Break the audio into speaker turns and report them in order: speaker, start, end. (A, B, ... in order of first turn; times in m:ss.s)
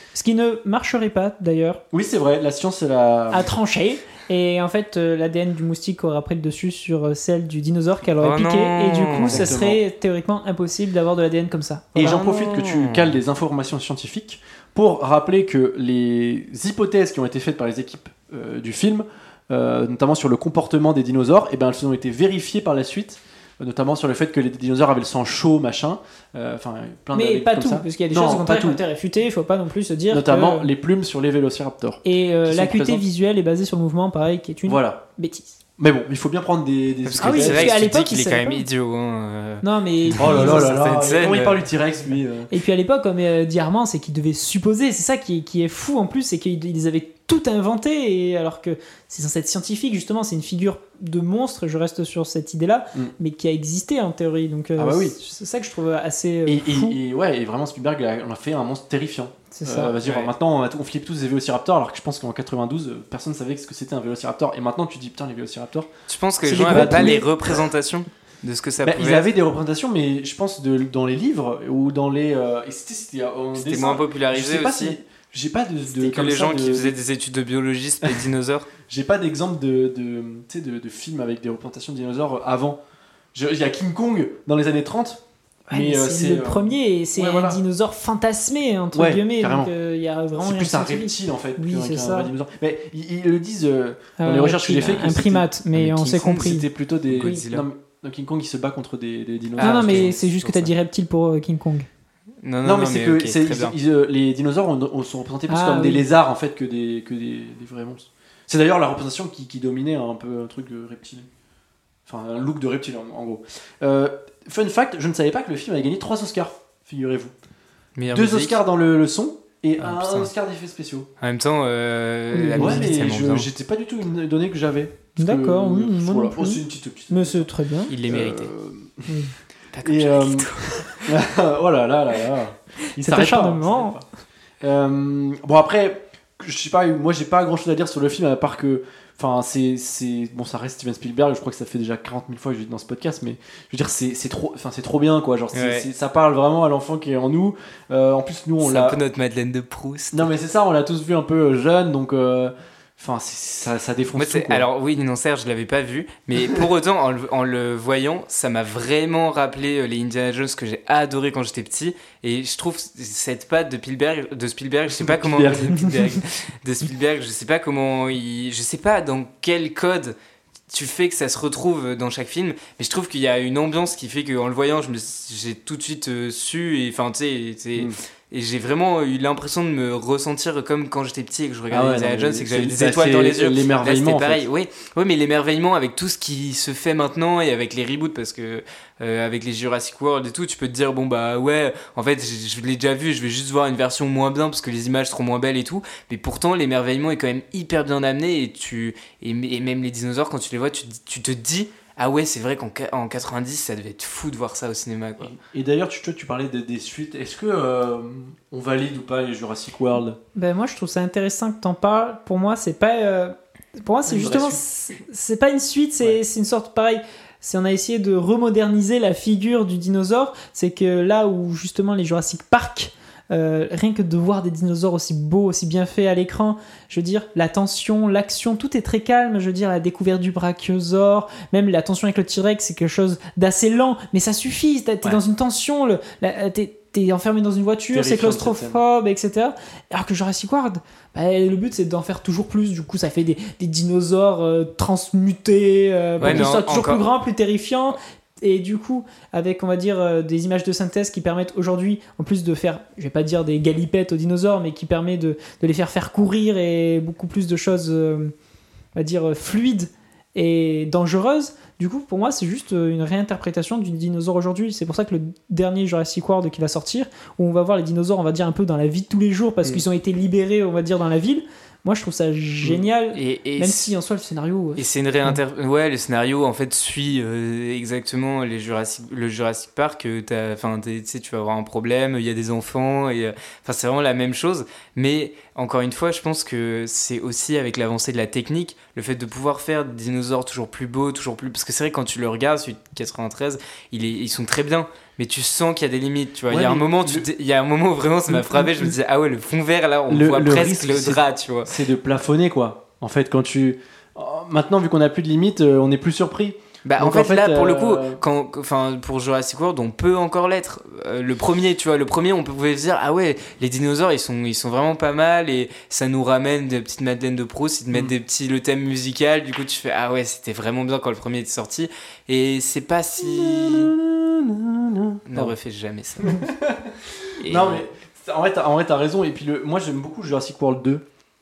0:00.1-0:01.8 A
0:01.9-0:03.4 B
0:03.3-0:12.2 A
0:08.2-0:09.5 C
0:09.1-0:09.8 B
0:12.0-0:28.8 B
0:12.0-0:13.1 C
0:27.1-0:30.7 A
0:30.1-0:33.0 B
0:32.0-0:35.6 A
0:34.7-0:35.0 B
0:35.8-0:37.9 B
0:37.1-0:41.7 C
0:37.2-0:38.6 A
0:39.6-0:40.8 A
0:40.2-0:42.5 B
0:42.5-0:57.0 A
0:54.8-0:55.2 B
0:56.4-1:05.9 B
0:59.5-1:00.0 A
1:00.0-1:00.3 C
1:06.1-1:09.3 C
1:06.4-1:07.3 A
1:06.5-1:07.6 B
1:08.8-1:16.9 B
1:13.6-1:15.0 C
1:15.9-1:18.7 C
1:18.0-1:18.3 B
1:18.9-1:22.8 B
1:23.3-1:27.6 B
1:25.7-1:32.3 A
1:28.9-1:29.7 B
1:30.4-1:40.1 B
1:34.2-1:36.7 A
1:35.7-1:36.4 C
1:37.1-1:37.7 C
1:37.2-1:37.5 A
1:39.6-1:40.7 C
1:39.6-1:41.9 A
1:42.4-1:43.8 C
1:42.6-1:51.3 B
1:45.5-1:46.0 A
1:52.1-1:57.3 B
1:58.0-1:58.6 C
1:58.1-2:01.1 B
1:59.8-2:00.3 C
2:01.2-2:03.5 C
2:02.3-2:02.9 A
2:02.6-2:07.5 B
2:05.2-2:07.9 A
2:07.9-2:08.5 C
2:08.0-2:09.1 B
2:09.1-2:09.3 A
2:09.7-2:11.1 C
2:09.8-2:14.1 B
2:12.8-2:14.0 A
2:14.6-2:29.0 B
2:25.5-2:25.9 C
2:28.6-2:30.3 C
2:30.1-2:34.7 B
2:34.1-2:50.1 C
2:45.0-2:46.2 B
2:50.7-3:25.3 C
3:01.7-3:04.4 B
3:25.2-3:30.2 B
3:30.4-4:18.3 A
3:34.1-3:34.6 B
3:57.9-3:58.8 B
4:06.2-4:06.5 B
4:06.2-4:07.1 C
4:19.0-4:35.4 A
4:33.1-4:33.9 C
4:34.8-5:01.7 C
4:56.5-4:57.3 B
4:58.6-4:58.9 B
5:00.1-5:08.2 B
5:06.9-5:23.9 C
5:23.2-5:25.6 B
5:25.3-5:26.5 C
5:26.2-5:31.0 B
5:27.4-5:27.8 C